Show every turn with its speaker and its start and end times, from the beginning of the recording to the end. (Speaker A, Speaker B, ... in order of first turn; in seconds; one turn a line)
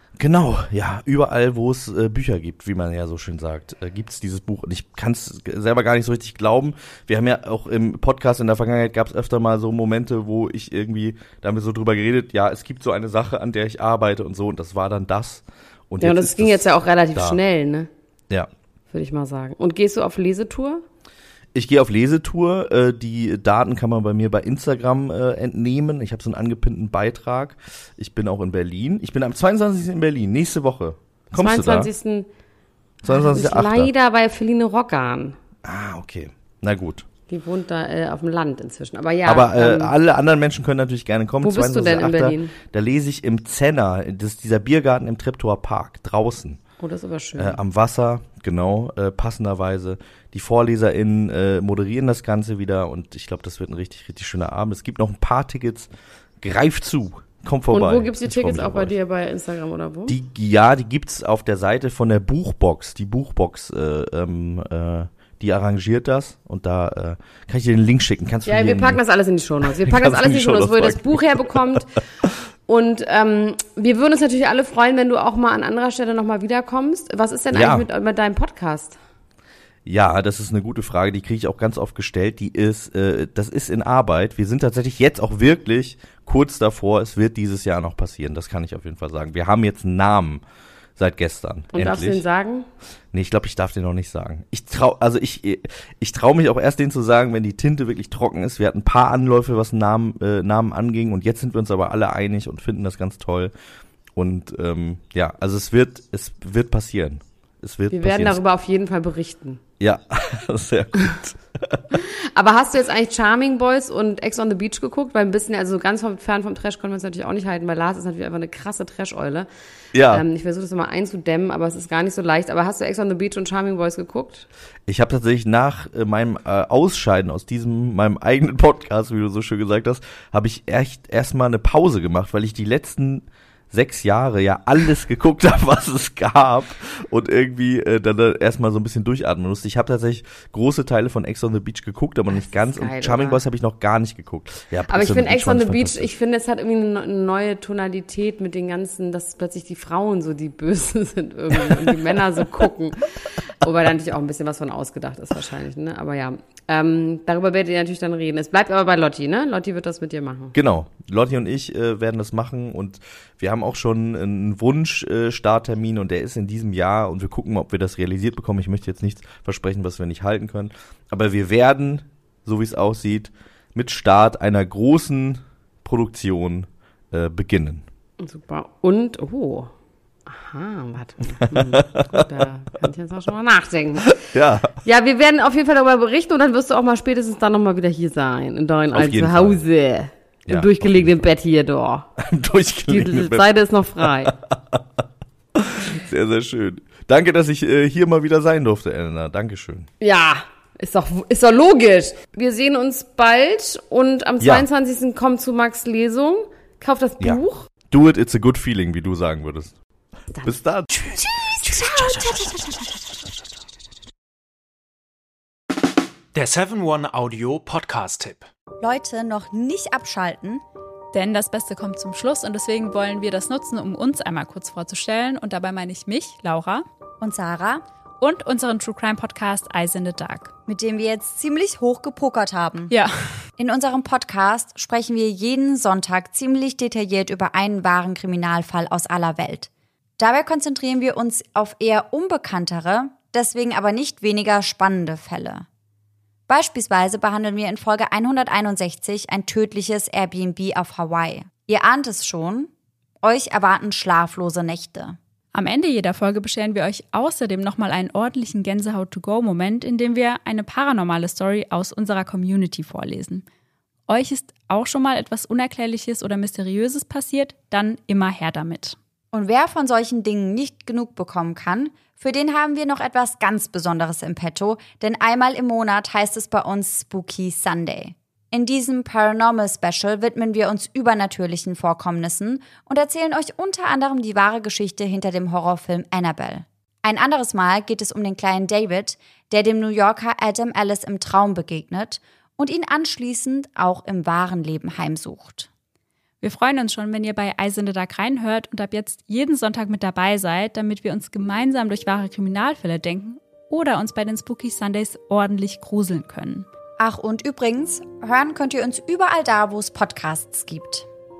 Speaker A: 0.2-17.4
Speaker B: 16.0-17.9
Speaker B: 18.9-20.8
Speaker A: 21.5-31.9
Speaker B: 31.3-32.3
Speaker A: 33.0-33.9
Speaker B: 33.0-35.4
Speaker A: 35.6-37.0
Speaker B: 37.3-39.9
Speaker A: 39.2-46.6
Speaker B: 41.4-42.5
Speaker B: 46.8-47.6
Speaker A: 47.4-55.9
Speaker A: 56.4-58.9
Speaker B: 57.7-60.2
Speaker A: 60.1-69.0
Speaker B: 68.4-71.9
Speaker A: 69.7-71.5
Speaker B: 72.7-79.0
Speaker A: 77.5-77.9
Speaker A: 79.8-90.4
Speaker A: 91.0-92.2
Speaker B: 91.7-92.7
Speaker A: 93.1-103.5
Speaker A: 104.1-108.4
Speaker B: 107.9-109.6
Speaker A: 109.8-111.8
Speaker B: 111.9-119.5
Speaker A: 119.9-120.2
Speaker B: 120.1-124.5
Speaker A: 124.9-146.1
Speaker B: 142.3-143.4
Speaker B: 144.8-160.5
Speaker A: 160.5-177.8
Speaker B: 178.2-179.7
Speaker B: 180.2-184.1
Speaker A: 181.5-182.3
Speaker A: 184.1-184.7
Speaker B: 184.8-192.1
Speaker A: 188.9-189.6
Speaker A: 190.5-191.2
Speaker A: 192.2-193.5
Speaker B: 192.9-194.3
Speaker A: 194.0-194.8
Speaker A: 195.6-199.9
Speaker B: 200.0-207.7
Speaker A: 204.4-204.7
Speaker A: 207.2-209.7
Speaker B: 210.3-213.0
Speaker A: 210.4-212.4
Speaker C: 212.1-212.5
Speaker C: 216.3-218.5
Speaker D: 218.8-220.6
Speaker E: 221.1-226.8
Speaker D: 227.2-227.8
Speaker E: 228.2-230.6
Speaker D: 230.6-232.9
Speaker E: 232.9-233.2
Speaker D: 233.6-245.7
Speaker D: 246.5-252.7
Speaker D: 253.2-255.2
Speaker E: 255.5-263.4
Speaker E: 264.1-269.0
Speaker D: 269.3-295.7
Speaker E: 296.4-306.7
Speaker D: 307.0-311.1